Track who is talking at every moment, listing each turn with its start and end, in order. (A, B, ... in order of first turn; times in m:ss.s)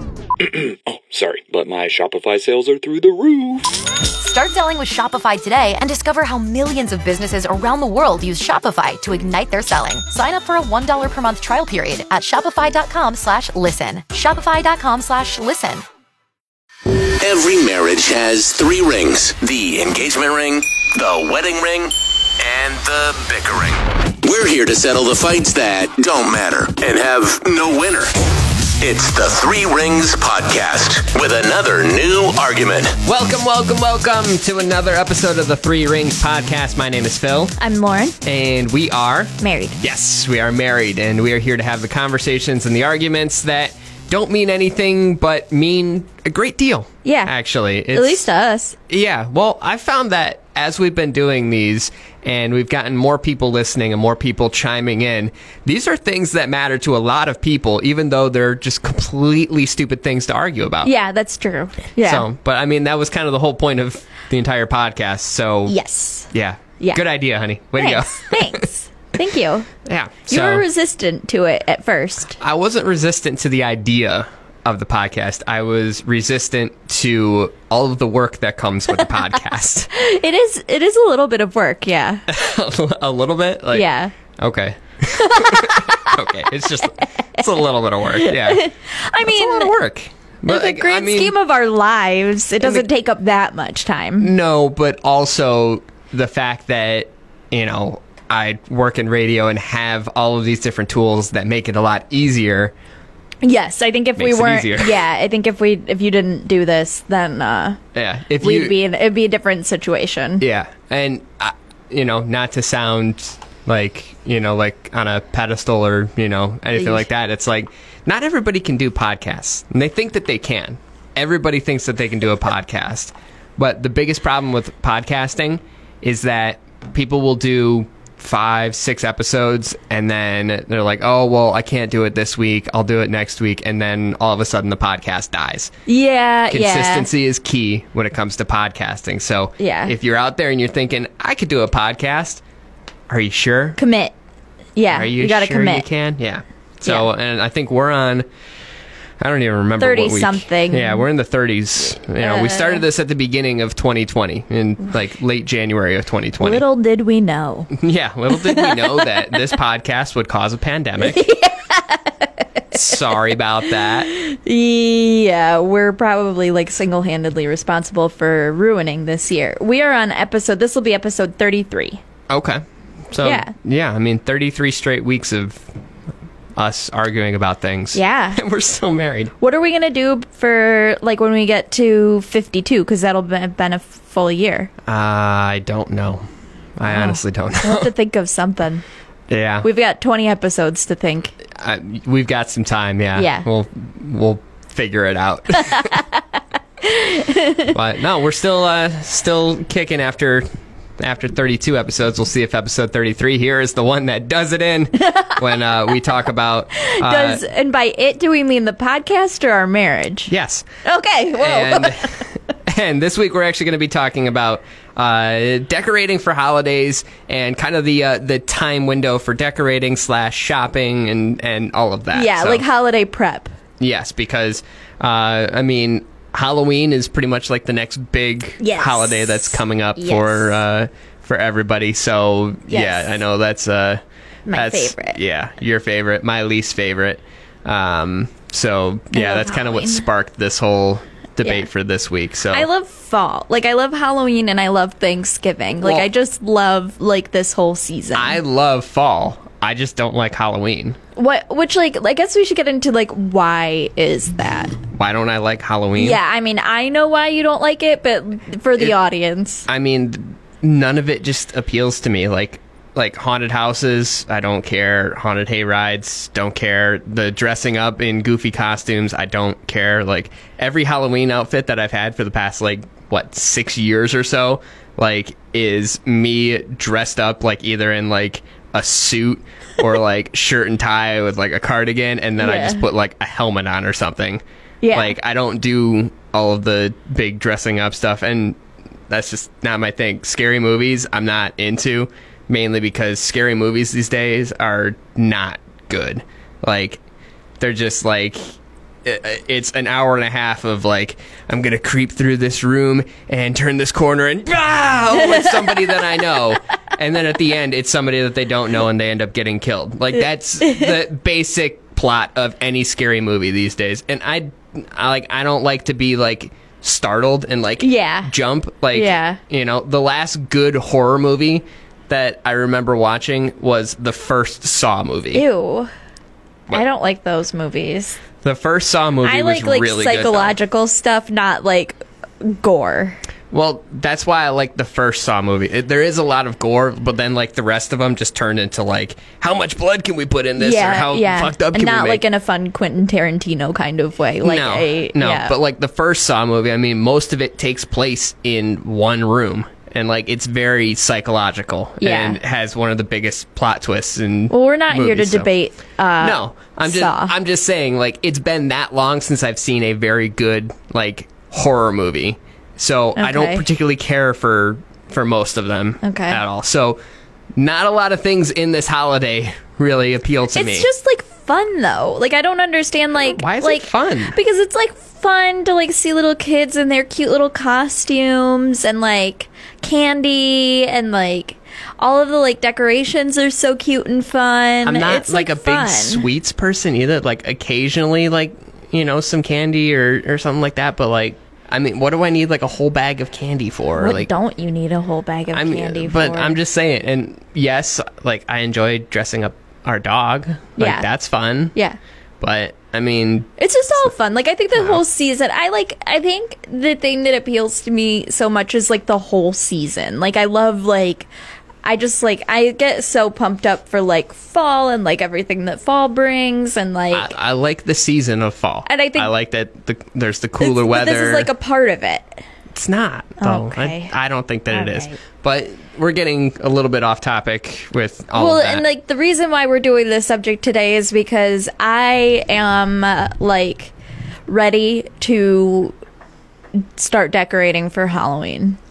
0:00.4-0:03.7 A
0:04.2-0:15.8 B
0:17.0-0:33.0 C
0:33.0-0:37.6 D
0:37.6-0:38.2 E
0:38.2-0:48.3 D
0:39.4-0:39.8 E
0:47.0-0:47.3 E
0:47.9-0:48.8 E
0:48.9-1:00.9 D
1:00.8-1:02.3 E
1:02.0-1:05.8 D
1:05.7-1:06.3 E
1:06.3-1:08.6 D
1:07.8-1:09.7 E
1:09.8-1:10.7 D
1:10.3-1:12.4 E
1:12.4-1:19.9 D
1:19.9-1:22.3 E
1:22.3-1:28.7 D
1:23.7-1:24.1 E
1:25.2-1:26.2 E
1:28.2-1:29.7 E
1:29.2-1:31.4 D
1:30.5-1:34.3 E
1:32.6-1:32.9 D
1:34.2-1:42.7 D
1:43.4-1:47.8 E
1:44.2-1:45.0 D
1:48.0-1:48.8 D
1:48.4-1:50.4 E
1:50.4-2:15.7 D
1:56.8-1:57.0 E
2:15.9-2:17.1 E
2:16.5-2:22.4 D
2:19.6-2:20.0 E
2:23.1-2:23.8 D
2:23.8-2:24.1 E
2:24.8-2:25.9 E
2:24.9-2:28.3 D
2:29.2-2:36.6 D
2:29.8-2:31.1 E
2:32.2-2:32.8 E
2:36.4-2:37.7 E
2:37.7-2:41.3 D
2:38.3-2:39.5 E
2:41.0-2:43.0 E
2:42.7-2:44.1 D
2:43.8-2:52.0 E
2:52.3-2:55.7 D
2:53.2-2:53.5 E
2:56.6-2:59.3 D
2:57.9-2:58.4 E
2:59.4-3:04.7 E
3:04.9-3:06.3 D
3:06.8-3:07.9 D
3:06.9-3:08.8 E
3:09.3-3:09.7 D
3:09.6-3:11.3 E
3:11.6-3:15.9 D
3:13.2-3:13.5 E
3:15.7-3:16.0 E
3:16.8-3:17.7 E
3:17.7-3:20.5 D
3:21.0-3:27.4 D
3:25.0-3:25.4 E
3:26.8-3:30.3 E
3:30.3-3:30.7 D
3:30.8-3:32.2 E
3:31.3-3:42.6 D
3:42.1-3:43.5 E
3:43.8-4:02.7 D
3:48.6-3:50.6 E
3:52.7-3:53.2 E
3:54.5-3:55.2 E
3:59.1-4:00.1 E
4:01.4-4:01.7 E
4:02.5-4:08.4 E
4:05.8-4:06.1 D
4:08.1-4:11.0 D
4:11.2-4:14.8 E
4:14.9-4:16.2 D
4:16.0-4:19.7 E
4:19.7-4:48.6 D
4:42.4-4:42.8 E
4:44.8-4:45.2 E
4:49.1-4:57.0 D
4:57.6-4:58.4 D
4:59.0-5:25.4 D
5:05.1-5:06.0 E
5:10.2-5:10.9 E
5:17.8-5:18.3 E
5:18.9-5:19.4 E
5:25.3-5:25.9 E
5:26.7-5:28.2 E
5:28.4-5:30.6 D
5:29.2-5:33.2 E
5:33.5-5:42.2 D
5:40.6-5:45.6 E
5:44.4-5:55.5 D
5:52.0-5:52.4 E
5:54.5-5:57.3 E
5:56.2-6:07.0 D
6:03.2-6:03.6 E
6:06.0-6:06.4 E
6:07.6-6:10.9 D
6:10.5-6:26.3 E
6:13.3-6:14.4 D
6:24.8-6:34.3 D
6:34.0-6:36.6 E
6:35.5-6:41.8 D
6:40.8-6:41.1 E
6:42.4-6:44.1 D
6:43.6-6:51.3 E
6:44.8-6:45.0 D
6:51.8-6:57.3 E
6:57.1-7:01.5 D
6:58.9-6:59.3 E
7:00.6-7:02.4 E
7:02.7-7:08.8 D
7:03.4-7:04.1 E
7:04.7-7:05.2 E
7:08.4-7:13.9 E
7:14.5-7:15.9 E
7:16.8-7:18.8 E